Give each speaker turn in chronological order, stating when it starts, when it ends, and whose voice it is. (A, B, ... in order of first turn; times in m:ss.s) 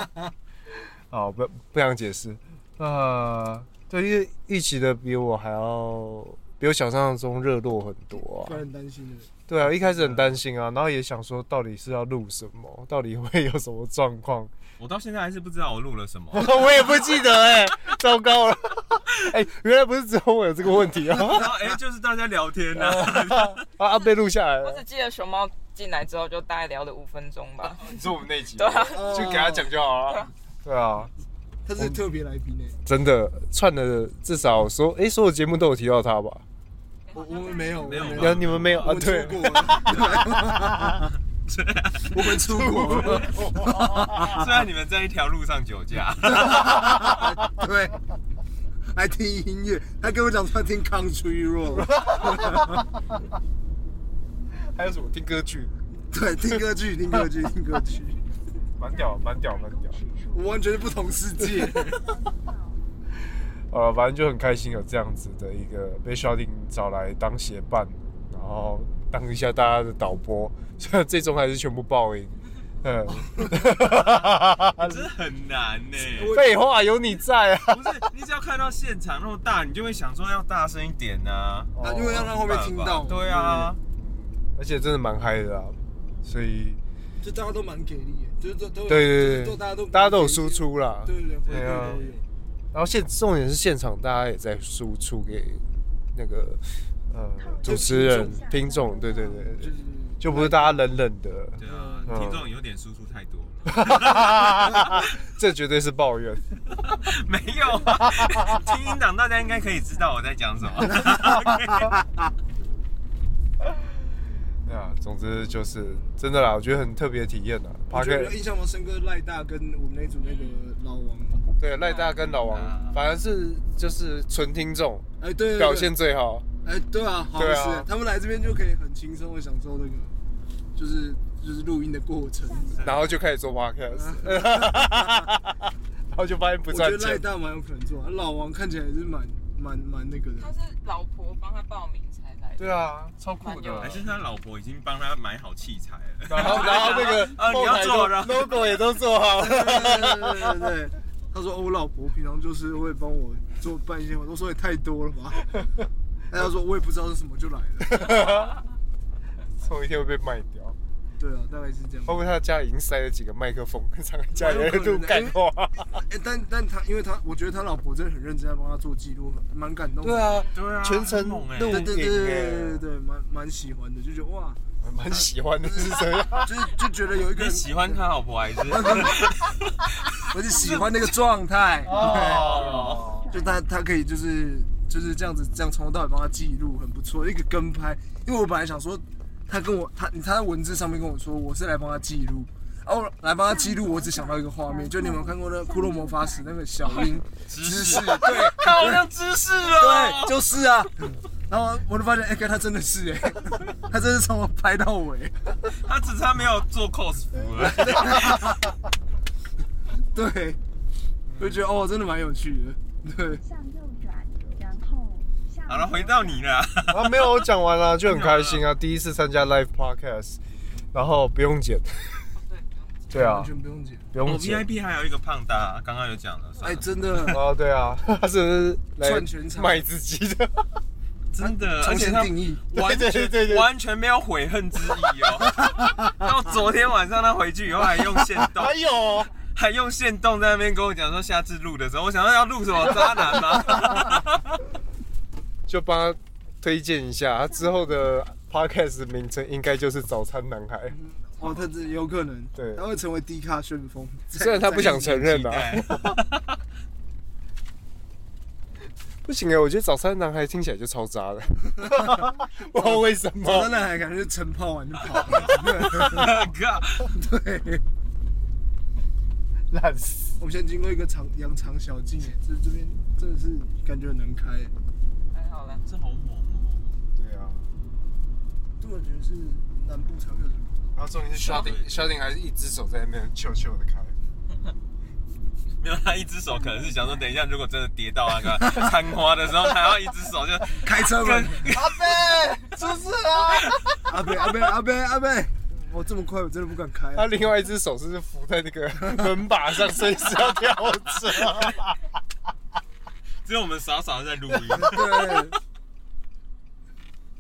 0:01.1-0:08.6 A
0:08.3-0:09.3 B
0:09.5-0:14.5 A
0:14.8-0:17.6 C
0:16.3-0:21.8 A
0:21.0-0:23.7 C
0:22.7-0:24.8 A
0:24.6-0:28.0 D
0:27.8-0:31.1 A
0:28.6-0:29.3 D
0:28.9-0:29.7 B
0:31.7-0:32.8 B
0:32.9-0:36.4 A
0:37.1-0:38.0 D
0:37.1-0:41.1 B
0:37.7-0:39.8 C
0:38.2-0:41.0 A
0:41.5-0:42.3 C
0:42.1-0:44.5 B
0:42.4-0:44.4 A
0:44.3-0:47.1 C
0:46.2-0:48.0 B
0:46.6-0:47.3 A
0:48.9-0:52.8 B
0:51.7-0:52.9 A
0:54.5-0:55.7 A
0:56.1-0:58.2 B
0:58.8-1:00.2 A
1:00.3-1:02.1 B
1:03.7-1:15.1 A
1:13.8-1:14.2 C
1:14.8-1:16.4 C
1:16.0-1:16.8 B
1:16.3-1:18.0 A
1:17.7-1:23.8 C
1:21.7-1:22.3 A
1:21.8-1:23.6 B
1:23.3-1:26.8 A
1:27.2-1:32.2 B
1:28.9-1:32.0 A
1:31.4-1:32.2 C
1:32.7-1:35.6 A
1:36.1-1:42.5 A
1:37.6-1:38.5 B
1:39.1-1:40.9 B
1:41.6-1:45.2 C
1:41.6-1:42.2 B
1:43.7-1:46.5 A
1:46.7-1:51.9 C
1:47.9-1:48.6 A
1:50.9-1:52.3 B
1:54.6-1:58.4 A
1:57.9-2:01.5 B
2:00.2-2:00.6 D
2:01.6-2:06.5 A
2:01.8-2:02.1 D
2:02.5-2:03.0 C
2:05.2-2:05.9 B
2:06.6-2:10.1 B
2:07.4-2:07.9 A
2:10.8-2:12.9 B
2:12.7-2:13.0 C
2:12.8-2:17.2 A
2:13.9-2:15.3 B
2:16.7-2:20.5 B
2:20.4-2:22.8 D
2:22.6-2:24.0 A
2:23.4-2:24.0 D
2:23.8-2:28.8 C
2:26.3-2:30.7 A
2:26.4-2:27.3 D
2:29.4-2:35.5 B
2:36.3-2:38.3 B
2:37.8-2:38.6 A
2:39.6-2:40.8 A
2:41.2-2:42.2 B
2:42.1-2:46.0 A
2:44.4-2:45.4 B
2:46.0-2:50.5 B
2:50.0-2:52.8 A
2:50.5-2:52.0 C
2:51.7-2:54.6 B
2:54.8-2:56.6 A
2:55.6-2:58.0 B
2:57.3-3:00.9 C
2:58.7-2:59.2 B
3:00.3-3:02.6 B
3:01.8-3:03.4 A
3:01.9-3:03.1 C
3:03.3-3:19.1 B
3:17.5-3:20.6 C
3:19.7-3:25.6 B
3:25.8-3:28.5 C
3:27.6-3:28.6 B
3:30.1-3:30.6 B
3:31.3-3:31.7 A
3:31.4-3:33.4 B
3:33.5-3:35.5 E
3:35.6-3:37.5 C
3:36.9-3:40.4 A
3:38.0-3:38.7 C
3:40.9-3:42.3 A
3:42.4-3:43.1 D
3:43.1-3:43.5 A
3:43.1-3:44.1 B
3:44.1-3:44.7 A
3:44.2-3:47.4 C
3:46.6-3:47.4 B
3:47.3-3:50.7 A
3:49.0-3:49.8 B
3:51.3-3:58.8 C
3:51.4-3:52.6 B
3:52.7-3:53.7 A
3:58.4-3:59.3 A
3:59.6-4:04.6 C
4:05.7-4:11.0 A
4:10.9-4:15.2 B
4:12.6-4:12.8 A
4:14.3-4:16.2 A
4:14.8-4:16.6 C
4:19.2-4:23.7 A
4:21.8-4:22.2 B
4:22.8-4:27.8 B
4:25.6-4:27.1 C
4:29.7-4:30.4 A
4:30.4-4:34.7 B
4:35.3-4:35.8 D
4:35.9-4:37.0 C
4:37.2-4:37.7 A
4:38.8-4:40.9 B
4:41.0-4:44.2 A
4:41.4-4:42.1 C
4:45.8-4:52.4 C
4:50.8-4:51.7 B
4:51.7-4:54.0 A
4:53.5-4:53.8 C
4:54.0-4:57.3 B
4:57.1-5:02.0 A
5:00.4-5:01.6 C
5:03.4-5:05.5 C
5:04.7-5:05.6 B